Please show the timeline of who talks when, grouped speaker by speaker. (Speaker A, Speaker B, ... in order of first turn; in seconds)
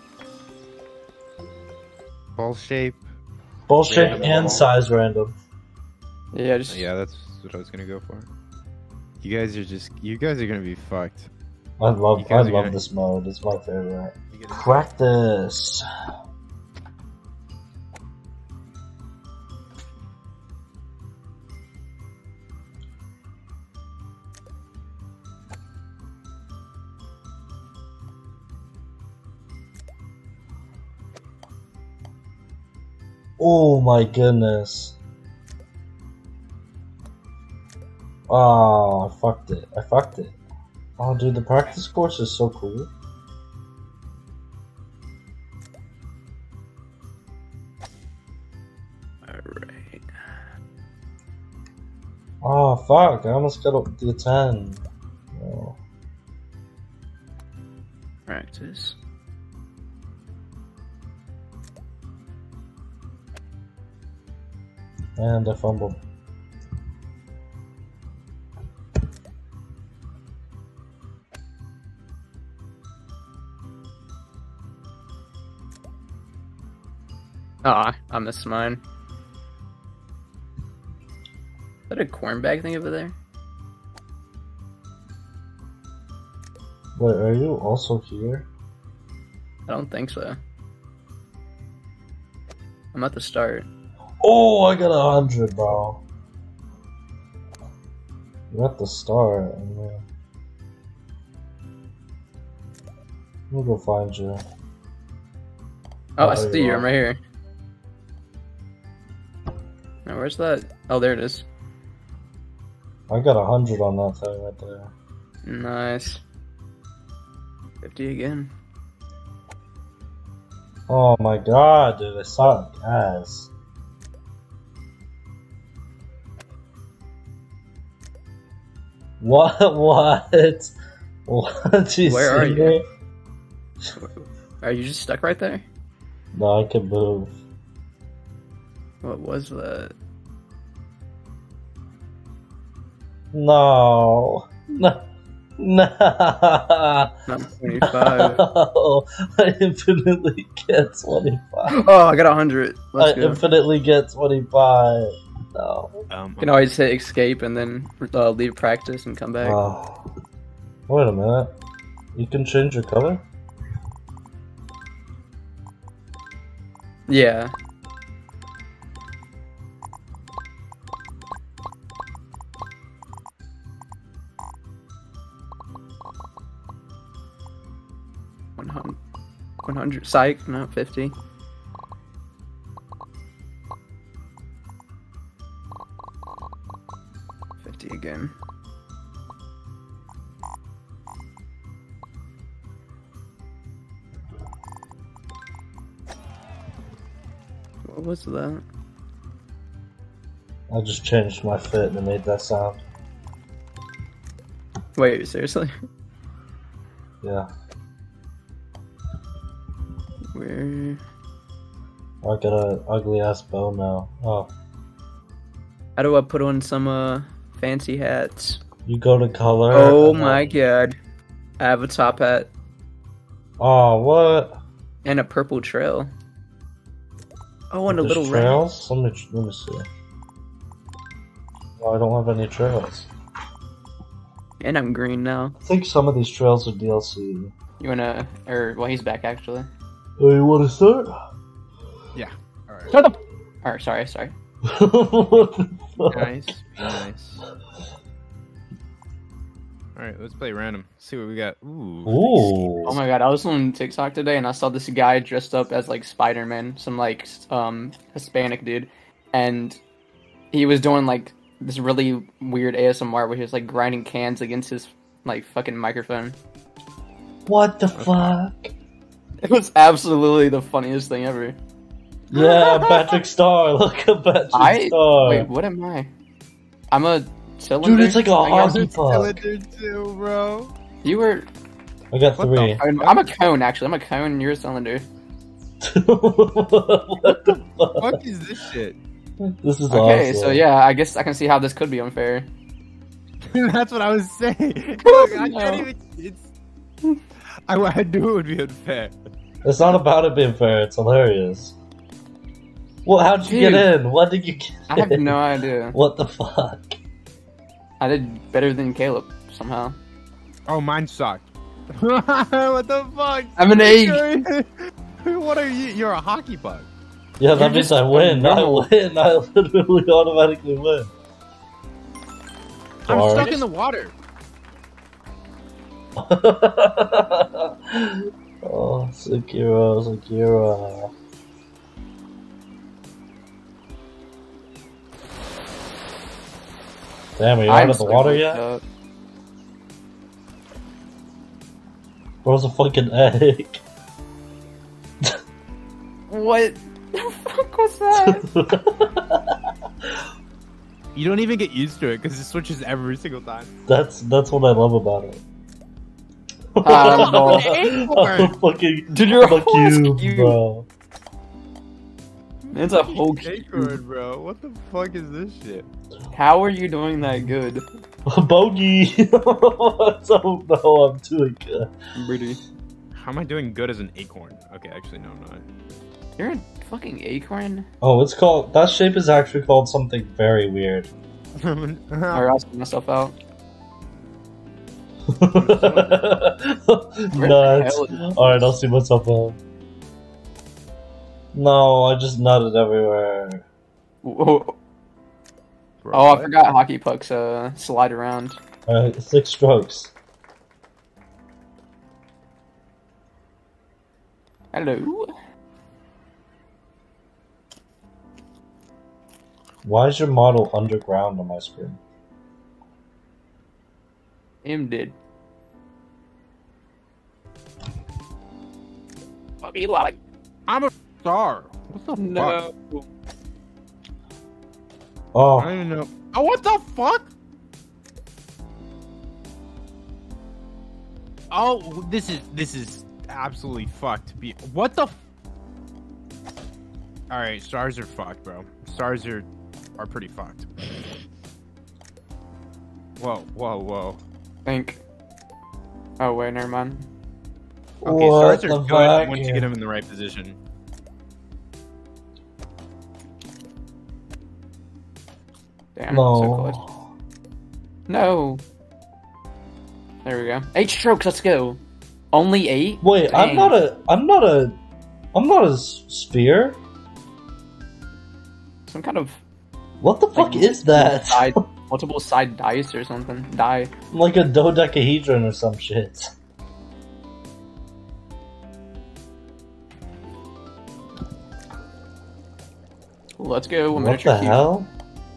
Speaker A: 2.4-3.0, 3.9-4.7, 6.7-8.3, 9.2-11.3, 12.2-12.8, 14.3-14.9, 156.1-156.6, 242.2-243.0, 246.1-247.4, 249.9-253.0, 267.9-268.3, 272.4-272.8, 278.6-280.7, 282.4-283.3, 288.0-289.0, 293.4-296.5, 297.7-299.2, 310.7-316.9, 323.1-324.1, 351.1-353.7, 356.9-358.6, 362.6-365.9, 373.1-375.7, 381.6-382.5, 385.5-386.3, 396.0-396.5, 420.7-422.6, 425.6-427.3, 431.5-435.2, 437.3-439.5, 440.0-441.2, 443.2-444.2, 448.0-450.6
Speaker B: 3.7-5.3, 11.8-15.8, 33.4-35.0, 38.3-40.4, 41.0-42.9, 52.4-55.8, 65.2-66.0, 87.0-88.5, 94.2-96.0, 98.5-100.0, 103.5-104.4, 106.2-106.9, 113.1-114.9, 120.9-123.5, 129.2-130.7, 131.3-132.8, 136.3-137.3, 143.3-145.1, 145.6-147.1, 147.8-151.8, 153.0-156.0, 159.4-160.0, 160.9-161.5, 162.2-163.2, 200.7-202.8, 207.2-207.5, 212.2-214.5, 218.8-220.6, 223.6-224.6, 227.9-229.9, 231.8-233.1, 235.7-237.5, 240.2-241.1, 244.7-246.3, 252.1-253.0, 267.5-268.7, 272.3-275.5, 277.8-279.4, 282.1-282.8, 285.8-288.2, 289.4-290.6, 299.6-301.8, 303.1-305.4, 305.9-307.0, 317.4-321.1, 323.1-323.5, 326.2-331.1, 337.4-338.6, 342.4-343.8, 348.1-349.6, 353.9-355.4, 356.7-360.9, 368.3-371.9, 378.0-381.1, 385.3-389.6, 391.5-393.6, 398.9-400.1, 409.8-412.0, 425.3-425.8, 448.0-449.7, 456.1-457.0, 463.0-464.8, 465.3-466.8, 470.0-471.6, 474.1-476.3, 483.9-484.9
Speaker C: 6.3-6.9, 49.2-50.2, 58.3-59.0, 77.6-78.8, 81.9-83.2, 89.7-90.4, 92.9-93.7, 106.2-107.2, 110.0-111.5, 115.4-116.2, 117.8-118.5, 132.1-132.8, 133.9-135.7, 139.0-139.9, 147.3-148.4, 151.7-153.4, 156.4-159.6, 167.1-167.5, 178.6-179.0, 179.6-181.2, 187.6-188.3, 197.8-198.6, 205.0-205.7, 210.3-211.0, 216.0-218.6, 219.7-221.0, 221.6-222.5, 225.1-226.1, 227.7-228.6, 234.6-235.6, 237.8-239.7, 242.9-244.3, 252.9-259.8, 260.5-266.4, 269.4-271.6, 274.5-276.1, 276.9-278.9, 281.0-281.5, 282.8-285.1, 289.9-292.5, 295.0-295.9, 303.4-303.9, 304.9-306.0, 308.0-310.0, 313.6-314.3, 317.5-318.9, 323.3-323.6, 337.7-338.8, 346.3-348.4, 356.8-357.8, 359.1-360.6, 362.7-364.0, 366.3-367.8, 372.1-372.6, 376.4-377.9, 382.3-383.4, 387.4-388.4, 394.2-394.8, 396.1-398.6, 404.7-405.3, 414.6-415.2, 419.6-420.2, 422.2-423.1, 444.7-445.0, 446.2-447.1, 456.0-456.8, 458.1-458.6, 460.2-461.8, 462.3-463.8, 468.9-469.4, 470.3-473.9, 483.4-484.7